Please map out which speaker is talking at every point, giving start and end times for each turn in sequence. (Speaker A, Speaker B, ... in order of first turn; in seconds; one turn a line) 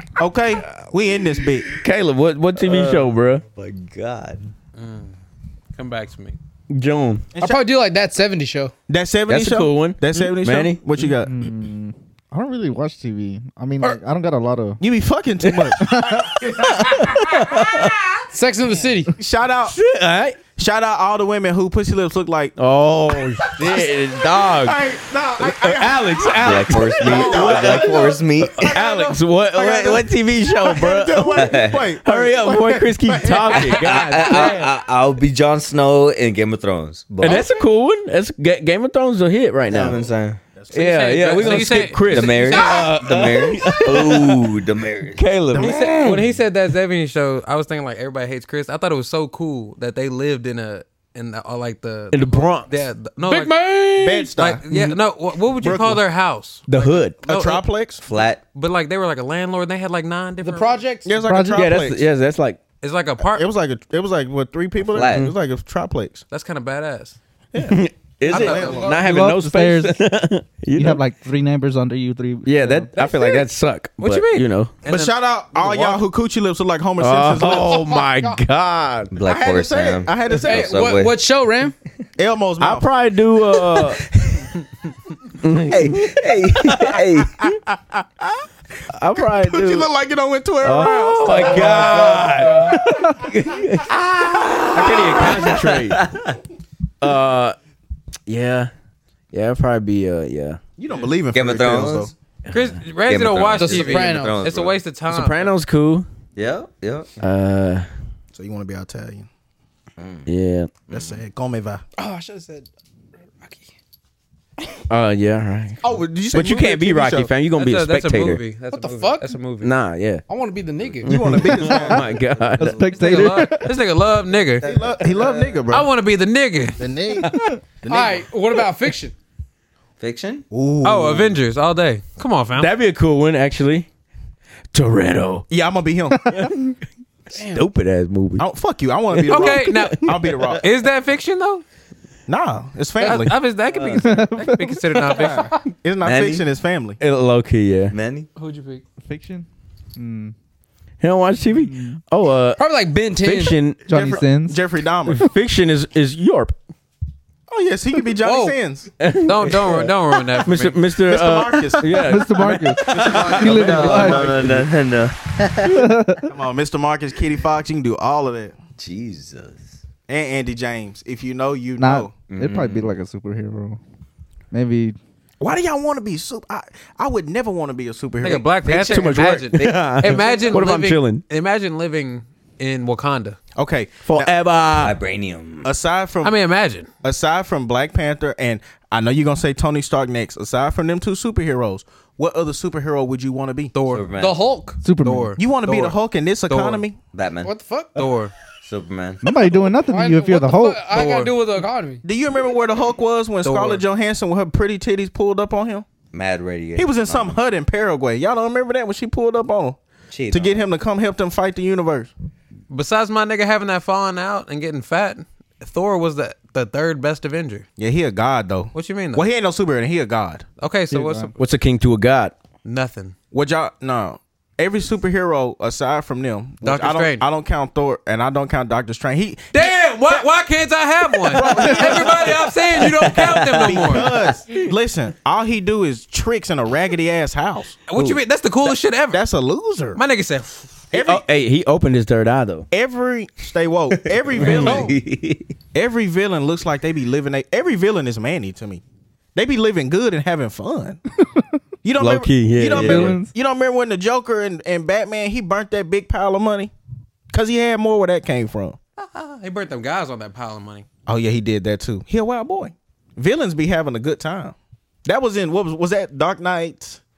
Speaker A: 0.2-1.7
Speaker B: 1.8-3.4
Speaker C: 2.6-4.5
Speaker D: 4.8-5.1
Speaker D: 5.7-6.4
Speaker B: 6.7-7.3
Speaker A: 7.3-7.6
Speaker E: 7.4-8.7
Speaker A: 8.9-11.4
Speaker B: 9.3-10.8
Speaker F: 11.2-14.8
Speaker A: 14.8-18.0
Speaker B: 15.5-15.7
Speaker F: 15.7-16.3
Speaker B: 16.6-17.9
Speaker E: 18.3-19.1
Speaker A: 19.1-19.8
Speaker B: 19.7-20.4
Speaker A: 20.6-22.6
Speaker B: 22.6-24.8
Speaker A: 23.4-34.0
Speaker B: 25.4-34.5
Speaker C: 26.4-28.8
Speaker C: 31.4-31.9
Speaker C: 33.6-37.5
Speaker D: 33.7-34.7
Speaker B: 37.2-40.0
Speaker C: 39.7-40.4
Speaker A: 40.5-41.5
Speaker B: 40.7-44.5
Speaker D: 40.7-43.0
Speaker C: 42.0-46.3
Speaker B: 45.1-46.3
Speaker D: 45.5-53.6
Speaker B: 52.1-52.8
Speaker E: 53.2-54.3
Speaker A: 54.0-54.6
Speaker D: 54.3-57.6
Speaker B: 54.7-55.0
Speaker A: 55.6-56.0
Speaker B: 56.7-57.2
Speaker A: 57.2-58.0
Speaker C: 58.0-58.4
Speaker D: 58.5-60.8
Speaker E: 60.4-61.1
Speaker A: 61.0-62.1
Speaker F: 61.1-61.7
Speaker B: 61.5-62.6
Speaker D: 62.8-63.5
Speaker A: 63.2-66.2
Speaker C: 64.9-65.3
Speaker B: 65.1-65.3
Speaker D: 66.3-67.2
Speaker A: 67.5-68.9
Speaker B: 67.6-71.0
Speaker D: 68.3-69.0
Speaker F: 68.9-70.0
Speaker F: 70.7-72.9
Speaker B: 72.4-74.7
Speaker D: 73.0-73.3
Speaker D: 74.0-76.0
Speaker A: 74.8-77.9
Speaker B: 77.0-79.1
Speaker E: 77.4-78.4
Speaker C: 79.1-81.2
Speaker A: 79.2-80.8
Speaker E: 80.4-81.7
Speaker A: 82.2-82.9
Speaker B: 82.6-84.0
Speaker C: 83.7-84.5
Speaker B: 85.4-87.0
Speaker C: 85.7-87.5
Speaker A: 87.4-88.4
Speaker B: 88.9-89.9
Speaker A: 89.2-92.9
Speaker B: 90.6-96.1
Speaker F: 92.9-93.2
Speaker C: 94.4-96.4
Speaker A: 94.8-95.5
Speaker B: 97.0-97.5
Speaker B: 98.3-98.7
Speaker B: 99.3-100.6
Speaker A: 100.8-102.1
Speaker C: 101.3-102.1
Speaker D: 102.5-105.5
Speaker C: 103.0-104.8
Speaker E: 103.6-104.4
Speaker B: 105.1-106.0
Speaker C: 106.3-107.1
Speaker B: 107.2-107.8
Speaker A: 108.3-109.3
Speaker C: 110.0-110.3
Speaker B: 110.3-110.7
Speaker C: 110.9-111.2
Speaker A: 110.9-111.8
Speaker E: 112.0-112.7
Speaker E: 113.4-113.7
Speaker B: 114.9-115.8
Speaker A: 115.8-117.3
Speaker B: 116.3-118.4
Speaker D: 117.5-119.7
Speaker E: 118.7-119.3
Speaker B: 119.6-120.2
Speaker E: 120.3-121.1
Speaker A: 121.0-122.0
Speaker B: 121.0-123.5
Speaker F: 121.4-122.0
Speaker C: 121.7-123.2
Speaker F: 122.6-123.8
Speaker D: 122.9-124.7
Speaker C: 124.5-125.7
Speaker A: 124.6-125.9
Speaker D: 125.7-126.8
Speaker A: 126.8-128.2
Speaker E: 127.9-129.1
Speaker C: 130.0-130.4
Speaker A: 130.5-131.4
Speaker D: 130.8-132.7
Speaker B: 132.6-133.8
Speaker B: 134.7-135.4
Speaker A: 135.5-136.4
Speaker E: 137.3-137.7
Speaker B: 137.4-138.4
Speaker A: 138.4-140.6
Speaker B: 139.1-140.3
Speaker D: 139.3-141.6
Speaker A: 142.3-143.3
Speaker D: 143.0-145.6
Speaker C: 143.7-144.2
Speaker F: 143.9-145.2
Speaker A: 145.1-147.0
Speaker E: 145.2-145.6
Speaker C: 146.0-146.4
Speaker B: 147.0-147.9
Speaker C: 147.9-148.3
Speaker E: 148.3-148.8
Speaker F: 149.0-150.3
Speaker B: 151.0-152.6
Speaker F: 151.5-152.0
Speaker E: 152.6-153.6
Speaker B: 153.2-153.8
Speaker F: 153.9-154.6
Speaker A: 153.9-155.2
Speaker B: 155.1-156.5
Speaker A: 157.5-158.9
Speaker E: 158.2-158.6
Speaker B: 159.0-164.7
Speaker D: 159.2-160.8
Speaker A: 161.1-162.2
Speaker F: 161.9-164.3
Speaker D: 162.9-164.0
Speaker C: 163.1-165.8
Speaker E: 163.1-163.9
Speaker F: 165.6-166.3
Speaker A: 166.3-168.6
Speaker C: 168.8-169.8
Speaker A: 170.1-172.1
Speaker F: 171.8-173.8
Speaker C: 172.3-172.9
Speaker F: 174.5-175.0
Speaker A: 175.4-179.1
Speaker D: 178.2-183.4
Speaker B: 178.7-181.2
Speaker C: 179.6-180.6
Speaker A: 183.6-184.3
Speaker B: 184.0-185.0
Speaker C: 184.8-185.7
Speaker A: 185.6-186.3
Speaker D: 186.2-186.9
Speaker A: 187.0-193.7
Speaker D: 193.7-194.1
Speaker C: 193.9-194.4
Speaker E: 194.2-194.8
Speaker F: 194.8-195.3
Speaker D: 195.0-195.9
Speaker A: 195.4-197.0
Speaker D: 196.5-196.8
Speaker C: 197.1-197.5
Speaker E: 197.4-198.0
Speaker D: 197.9-198.3
Speaker C: 198.6-199.2
Speaker F: 199.2-200.9
Speaker E: 199.8-202.0
Speaker D: 200.9-201.3
Speaker A: 202.0-205.9
Speaker D: 203.4-203.8
Speaker C: 206.1-207.4
Speaker A: 206.8-209.8
Speaker C: 210.1-210.6
Speaker A: 210.3-212.1
Speaker D: 212.7-217.7
Speaker A: 217.8-220.4
Speaker D: 218.7-219.2
Speaker D: 220.6-221.3
Speaker F: 220.9-221.3
Speaker B: 221.4-222.3
Speaker D: 222.6-223.1
Speaker A: 223.3-230.2
Speaker D: 226.6-227.2
Speaker D: 229.5-234.1
Speaker A: 231.3-232.6
Speaker C: 232.9-234.0
Speaker A: 233.6-237.8
Speaker D: 237.9-239.2
Speaker C: 237.9-238.2
Speaker A: 239.1-240.0
Speaker D: 239.9-240.9
Speaker A: 240.9-241.2
Speaker B: 240.9-242.7
Speaker A: 242.7-244.9
Speaker C: 243.9-245.5
Speaker B: 244.4-244.8
Speaker A: 245.7-248.8
Speaker A: 249.3-251.0
Speaker A: 251.8-256.7
Speaker B: 252.0-253.1
Speaker C: 252.7-253.2
Speaker F: 252.7-253.3
Speaker A: 257.3-258.8
Speaker D: 259.0-260.9
Speaker A: 261.1-267.0